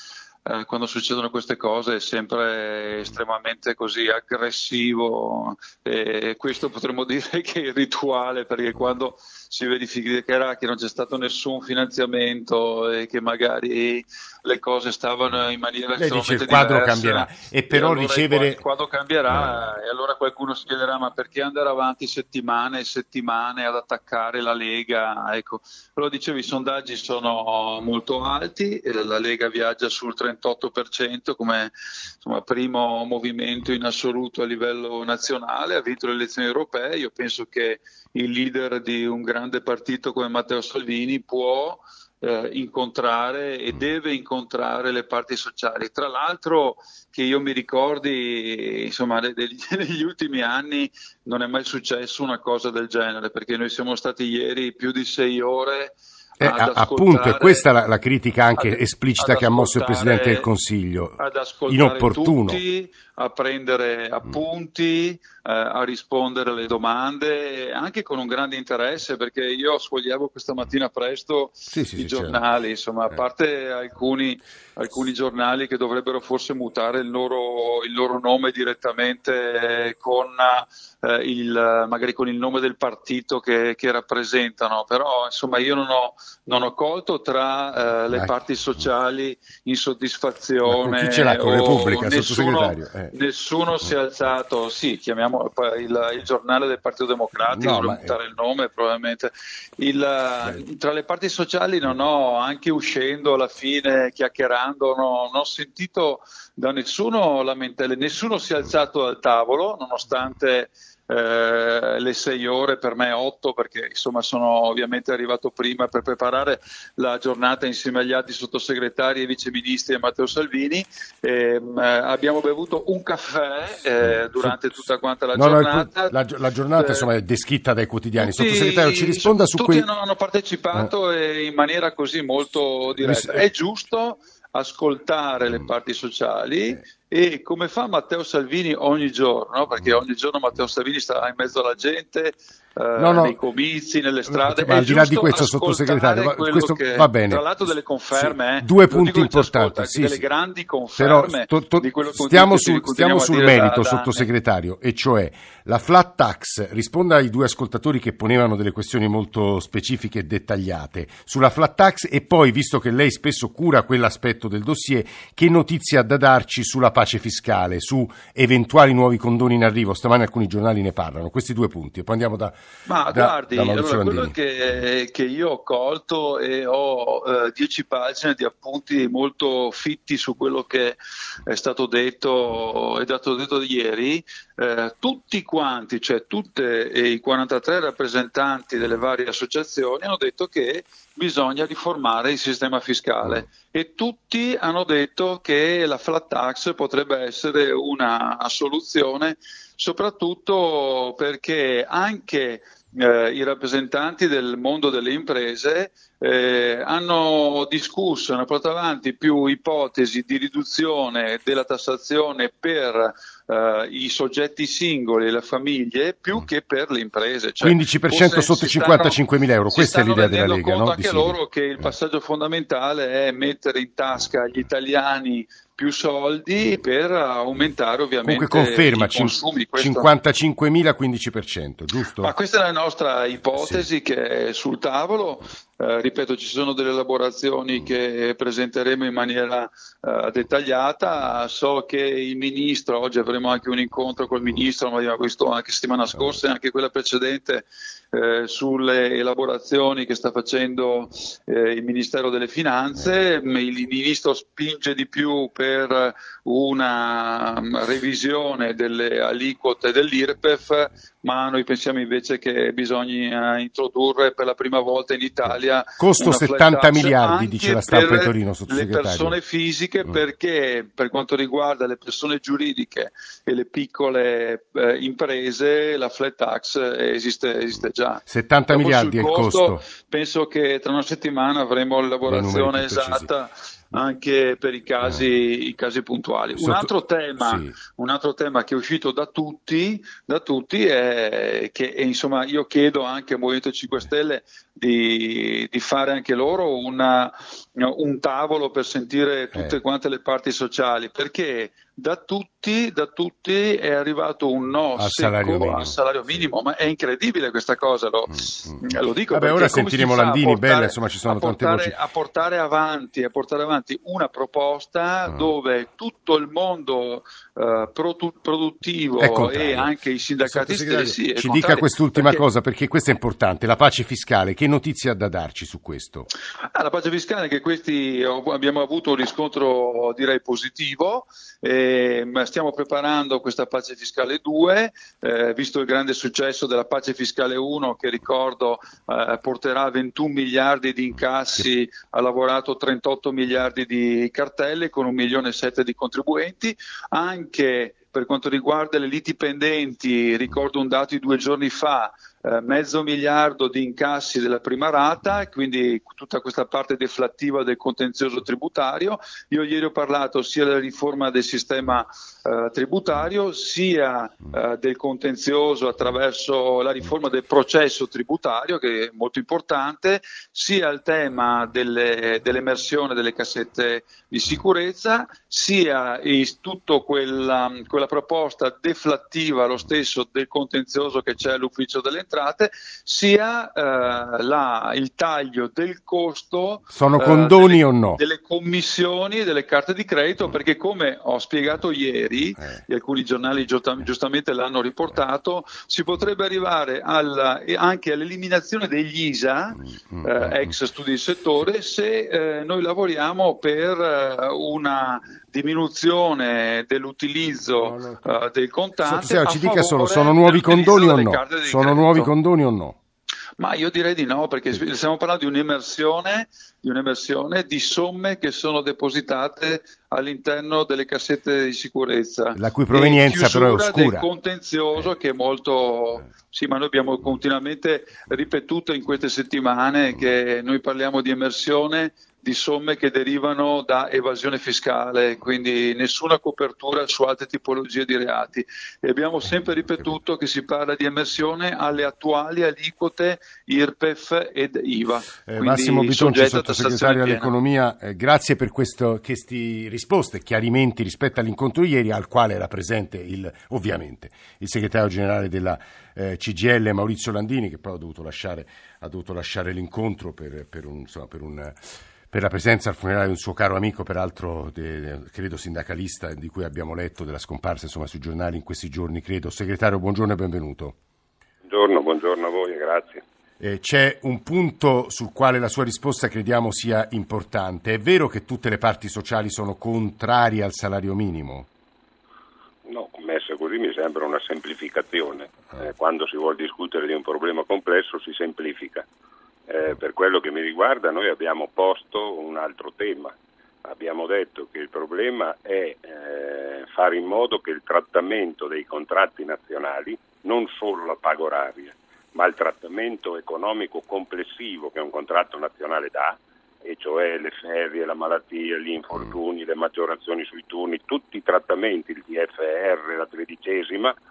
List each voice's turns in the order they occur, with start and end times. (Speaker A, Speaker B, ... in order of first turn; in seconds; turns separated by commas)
Speaker A: 0.5-57.6, Speaker B: 16.0-18.6, Speaker B: 19.3-19.8, Speaker B: 56.4-62.6, Speaker A: 58.6-60.5, Speaker A: 61.2-126.2, Speaker B: 71.7-72.5, Speaker B: 88.1-88.9, Speaker B: 90.6-93.1, Speaker B: 97.5-98.2, Speaker B: 124.0-129.9, Speaker A: 126.8-127.1, Speaker A: 128.2-154.3, Speaker B: 132.9-133.5, Speaker B: 135.4-135.7, Speaker B: 143.0-143.4, Speaker B: 144.3-150.3, Speaker B: 151.0-172.6, Speaker A: 172.9-219.2, Speaker B: 173.1-174.4, Speaker B: 217.6-221.9, Speaker A: 219.7-230.1, Speaker B: 228.2-232.3, Speaker A: 232.2-322.4, Speaker B: 233.5-233.9, Speaker B: 246.1-246.4, Speaker B: 265.4-269.4, Speaker B: 278.3-279.9, Speaker B: 282.3-283.3, Speaker B: 286.6-287.8, Speaker B: 299.5-299.8, Speaker B: 304.9-306.5, Speaker B: 308.3-312.0, Speaker B: 315.3-315.5, Speaker B: 319.2-319.9, Speaker B: 320.4-326.3, Speaker A: 326.7-412.3, Speaker B: 386.9-388.2, Speaker B: 392.6-392.8, Speaker B: 399.8-400.8, Speaker B: 407.8-408.4, Speaker B: 409.0-413.0, Speaker A: 413.6-447.5, Speaker B: 422.5-424.3, Speaker B: 445.5-461.8, Speaker B: 462.3-471.0, Speaker C: 471.6-473.2, Speaker B: 473.6-481.7, Speaker C: 482.9-489.1, Speaker C: 489.7-514.1